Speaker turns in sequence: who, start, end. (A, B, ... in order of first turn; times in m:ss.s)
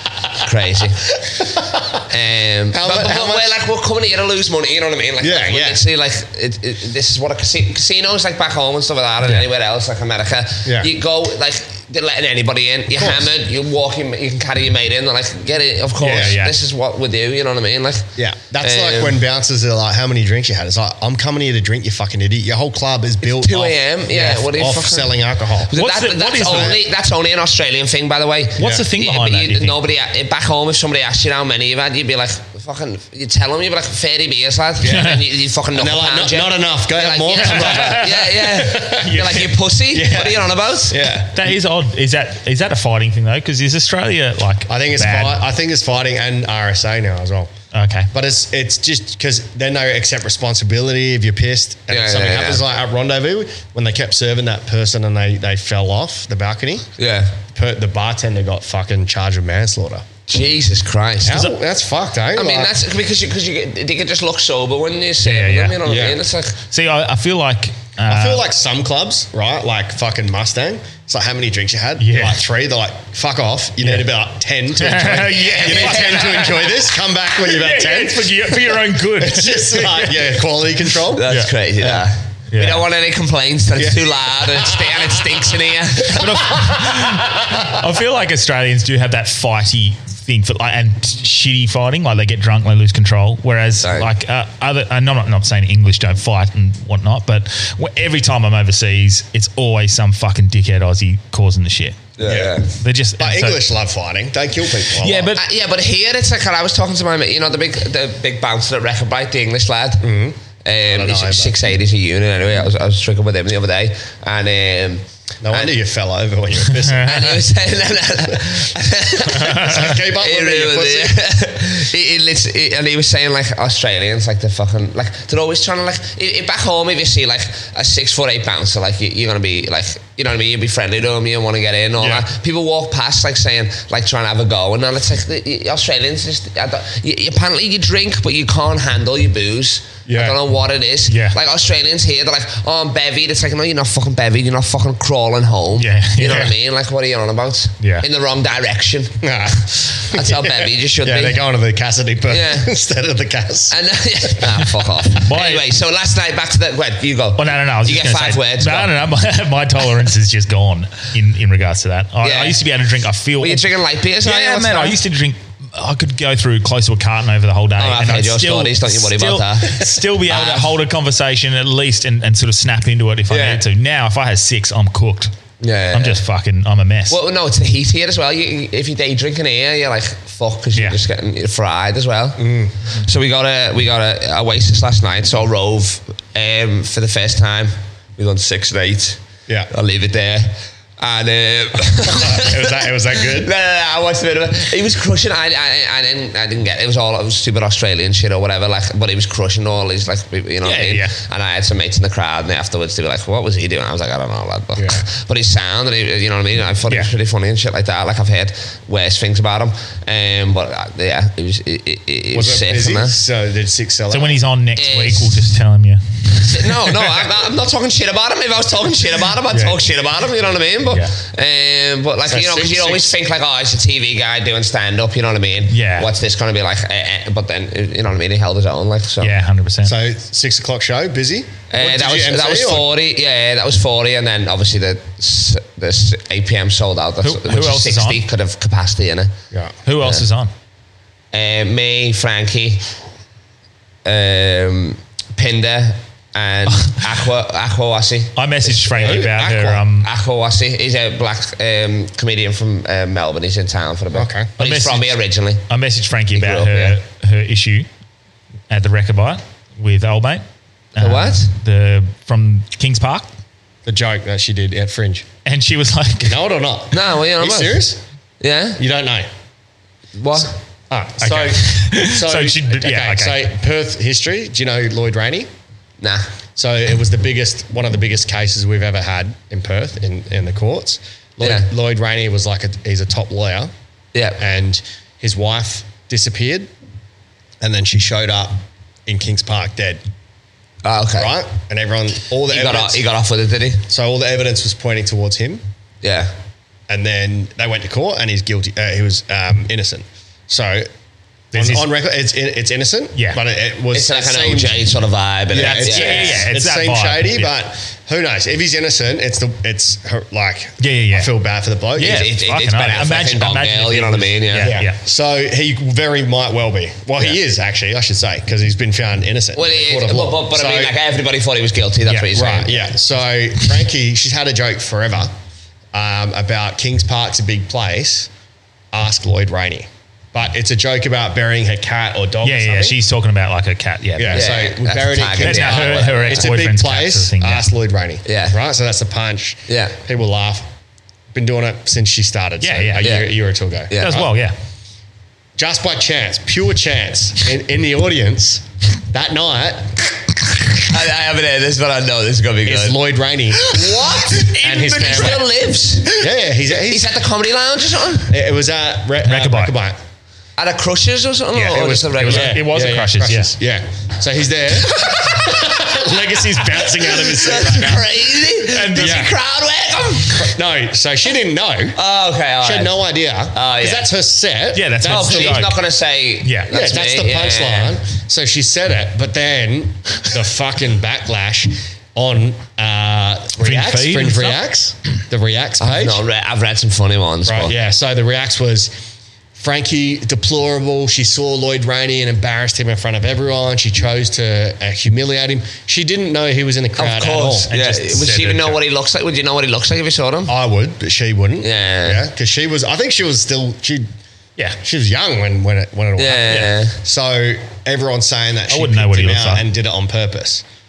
0:00.3-0:01.1 A
0:01.4-0:02.0 B
0:02.0-0:19.2 A
0:02.7-0:03.6 B
0:05.2-0:05.8 B
0:10.6-0:10.9 B
0:12.9-0:13.3 B
0:16.0-0:16.5 C
0:16.0-0:16.4 B
0:18.2-0:25.7 B
0:23.2-0:41.0 A
0:25.7-0:26.7 C
0:26.4-0:26.8 B
0:28.6-0:29.8 C
0:28.6-0:28.8 B
0:34.8-0:35.1 B
0:34.9-0:35.2 C
0:35.7-0:41.6 B
0:37.4-0:39.5 C
0:41.3-0:45.4 C
0:44.7-0:47.5 B
0:47.7-0:48.1 C
0:48.1-0:56.9 B
0:51.9-0:52.6 A
0:57.0-0:57.4 A
0:57.4-1:00.0 B
1:00.3-1:01.5 A
1:01.2-1:02.7 B
1:02.3-1:06.6 A
1:05.2-1:05.8 C
1:05.8-1:06.2 B
1:06.7-1:08.4 C
1:08.1-1:21.3 B
1:12.0-1:12.4 C
1:14.8-1:16.8 C
1:15.6-1:16.4 A
1:17.3-1:20.4 C
1:21.1-1:26.6 A
1:21.2-1:21.5 C
1:21.8-1:22.0 B
1:22.5-1:22.8 C
1:23.8-1:24.2 B
1:26.1-1:42.1 C
1:26.5-1:26.8 B
1:33.8-1:34.1 A
1:42.2-1:42.7 A
1:42.2-1:42.6 B
1:42.8-1:43.6 C
1:43.2-1:45.3 B
1:45.0-1:45.4 C
1:45.3-1:50.1 A
1:50.0-1:51.6 B
1:50.6-1:55.7 A
1:55.4-1:57.4 B
1:56.8-1:57.1 C
1:57.0-2:31.4 A
1:59.3-2:01.2 B
1:59.3-1:59.8 C
2:12.0-2:12.3 B
2:20.1-2:20.4 B
2:21.1-2:21.4 C
2:25.8-2:26.5 C
2:29.2-2:33.7 B
2:32.3-2:32.7 A
2:33.7-2:38.9 A
2:35.2-2:35.6 C
2:37.4-2:43.6 C
2:42.2-2:42.6 A
2:43.4-2:45.0 A
2:44.2-2:55.3 C
2:47.8-2:50.7 A
2:53.3-2:53.6 A
2:55.6-2:56.2 A
2:55.9-2:57.2 C
2:57.1-3:09.2 A
3:02.4-3:02.7 B
3:09.7-3:33.2 A
3:12.1-3:13.5 B
3:20.6-3:21.1 C
3:24.8-3:25.0 B
3:32.3-3:34.4 B
3:34.1-3:36.7 C
3:34.8-3:35.5 A
3:36.4-3:49.3 A
3:39.5-3:39.8 B
3:42.2-3:43.1 B
3:45.7-3:46.1 C
3:49.2-3:50.0 C
3:49.8-3:52.9 B
3:51.7-3:59.3 A
3:57.2-3:58.2 C
3:59.8-4:00.5 C
4:01.3-4:02.9 A
4:04.0-4:15.6 A
4:06.7-4:07.0 C
4:08.4-4:10.1 C
4:09.0-4:09.8 B
4:14.1-4:14.5 B
4:14.6-4:15.1 C
4:15.7-4:17.9 C
4:16.3-4:17.0 A
4:18.7-4:20.4 C
4:20.9-4:23.3 C
4:21.0-4:21.5 A
4:23.8-4:25.2 B
4:25.4-4:26.4 C
4:26.2-4:28.0 B
4:26.9-4:27.9 A
4:28.4-4:28.8 A
4:28.8-4:29.3 B
4:30.2-4:30.5 A
4:30.9-4:35.5 B
4:31.2-4:33.5 C
4:36.0-4:36.3 A
4:36.6-4:43.7 B
4:41.4-4:41.7 A
4:44.1-4:44.4 A
4:44.4-4:46.7 B
4:47.6-4:50.0 B
4:50.8-4:51.4 A
4:51.1-4:53.0 B
4:52.5-4:53.8 A
4:53.9-4:55.6 B
4:56.0-4:56.3 A
4:56.9-5:00.9 B
5:01.5-5:01.9 C
5:01.5-5:04.9 B
5:03.9-5:06.5 A
5:05.5-5:12.3 B
5:05.5-5:07.5 C
5:10.8-5:11.3 C
5:12.0-5:15.0 C
5:12.0-5:14.8 A
5:14.6-5:21.0 B
5:19.5-5:22.9 A
5:22.3-5:25.3 B
5:25.9-5:28.3 B
5:28.9-5:33.0 B
5:32.4-5:34.5 C
5:34.2-5:40.7 B
5:34.3-5:36.5 A
5:35.4-5:37.7 C
5:38.2-5:38.6 A
5:39.7-5:40.0 A
5:41.3-5:44.3 B
5:42.6-5:43.1 C
5:43.0-5:43.4 A
5:43.9-5:44.3 A
5:44.0-5:44.5 C
5:45.6-5:50.0 B
5:50.8-5:53.0 A
5:52.6-5:55.5 B
5:53.5-5:56.2 A
5:56.2-5:57.1 B
5:56.8-5:58.3 A
5:58.3-6:00.0 B
5:59.2-5:59.7 C
6:00.6-6:02.6 A
6:01.5-6:03.5 C
6:01.6-6:09.4 B
6:04.9-6:05.6 A
6:06.9-6:10.5 A
6:08.6-6:09.3 C
6:10.3-6:12.0 B
6:11.9-6:13.0 A
6:12.6-6:15.6 B
6:13.5-6:14.1 A
6:14.7-6:15.8 C
6:15.0-6:18.0 A
6:16.4-6:16.7 C
6:16.7-6:26.2 B
6:23.6-6:24.6 C
6:25.8-6:27.7 A
6:27.4-6:28.9 B
6:29.5-6:38.7 B
6:37.0-6:40.5 A
6:37.7-6:38.6 C
6:40.5-6:44.1 B
6:41.6-6:42.2 A
6:44.8-6:50.6 B
6:46.2-6:47.0 A
6:48.7-6:49.6 C